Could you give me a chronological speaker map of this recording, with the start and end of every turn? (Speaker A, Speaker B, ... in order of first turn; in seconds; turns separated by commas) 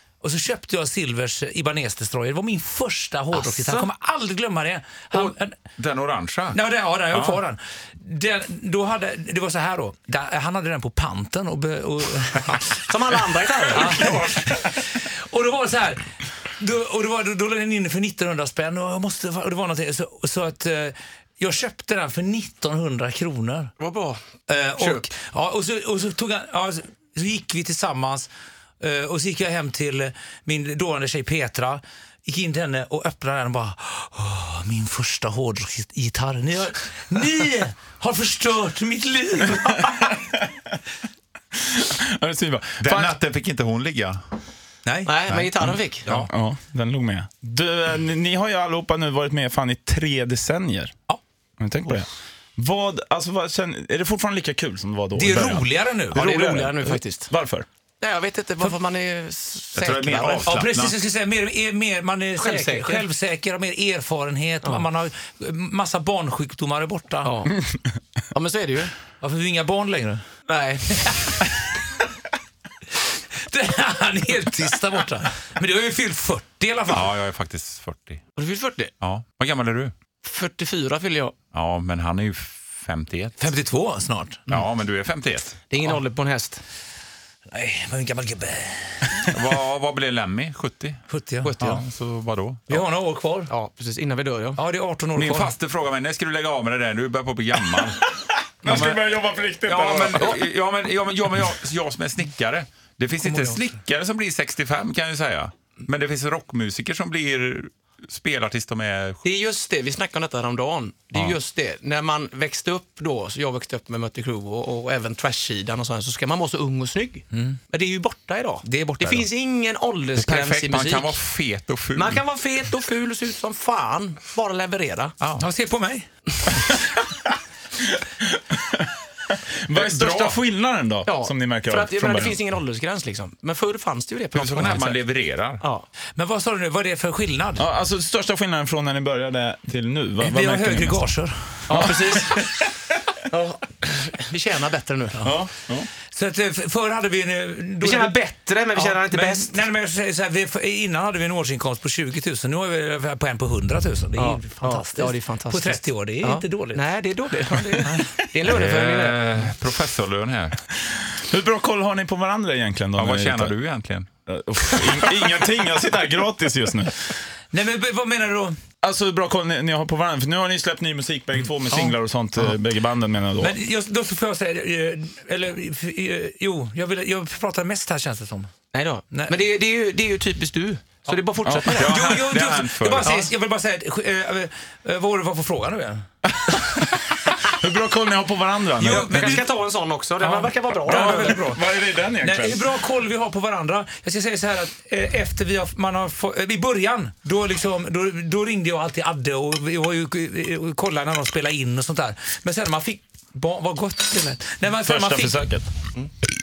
Speaker A: 0.2-5.6, Speaker B: 3.3-3.9, Speaker C: 5.8-6.6, Speaker A: 6.5-12.7, Speaker C: 7.1-7.4, Speaker B: 12.4-14.1, Speaker A: 13.7-23.7, Speaker C: 13.8-14.5, Speaker B: 23.8-24.2, Speaker A: 24.5-40.1, Speaker B: 24.8-25.1, Speaker D: 41.5-43.2, Speaker C: 42.8-44.2, Speaker A: 44.9-45.2, Speaker B: 45.1-46.1, Speaker D: 46.1-50.9, Speaker D: 51.6-57.7, Speaker A: 55.1-56.3, Speaker B: 56.1-57.3, Speaker B: 58.0-60.6, Speaker C: 59.7-60.9, Speaker A: 60.4-67.3, Speaker B: 62.4-63.0, Speaker B: 67.2-67.6, Speaker B: 68.3-68.9, Speaker A: 69.2-70.2, Speaker B: 70.5-71.2, Speaker A: 71.0-71.8, Speaker A: 73.1-77.1, Speaker C: 76.9-78.2, Speaker B: 78.4-78.9, Speaker C: 79.0-79.9, Speaker B: 80.2-81.3, Speaker C: 81.5-83.5, Speaker A: 83.4-84.4, Speaker C: 84.5-85.6, Speaker B: 85.7-86.6, Speaker A: 87.5-89.3, Speaker C: 89.3-91.0, Speaker A: 91.1-91.8, Speaker B: 91.4-91.8, Speaker C: 91.6-92.8, Speaker A: 92.7-93.5, Speaker B: 93.5-94.6, Speaker A: 94.6-95.5, Speaker C: 95.2-98.0, Speaker D: 97.7-100.3, Speaker C: 98.6-109.2, Speaker A: 99.7-100.0, Speaker B: 103.2-103.5, Speaker B: 109.2-121.1, Speaker A: 117.3-117.6, Speaker A: 118.6-119.2, Speaker C: 120.2-122.2, Speaker B: 121.9-125.2, Speaker A: 125.4-126.1, Speaker D: 127.8-132.4, Speaker C: 129.7-130.4, Speaker B: 131.1-135.1, Speaker C: 134.3-135.6, Speaker A: 136.2-137.6, Speaker D: 137.6-141.0, Speaker A: 140.2-141.6, Speaker B: 141.7-142.4, Speaker D: 141.7-142.4, Speaker B: 143.3-145.3, Speaker D: 145.2-145.9, Speaker A: 146.1-148.2, Speaker B: 147.8-149.6, Speaker A: 148.7-156.9, Speaker B: 154.2-159.2, Speaker C: 158.4-160.6, Speaker D: 160.9-163.6, Speaker C: 162.9-164.1, Speaker D: 164.3-166.9, Speaker A: 167.5-168.6, Speaker D: 168.8-173.6, Speaker A: 173.4-178.5, Speaker B: 178.7-182.1, Speaker A: 179.1-179.3, Speaker D: 181.4-181.8, Speaker C: 181.8-183.1, Speaker A: 181.8-186.1, Speaker B: 183.0-183.3, Speaker D: 186.4-189.4, Speaker B: 188.8-191.5, Speaker A: 188.8-189.4, Speaker A: 190.2-191.6, Speaker D: 190.9-192.7, Speaker A: 192.2-205.4, Speaker D: 204.8-205.7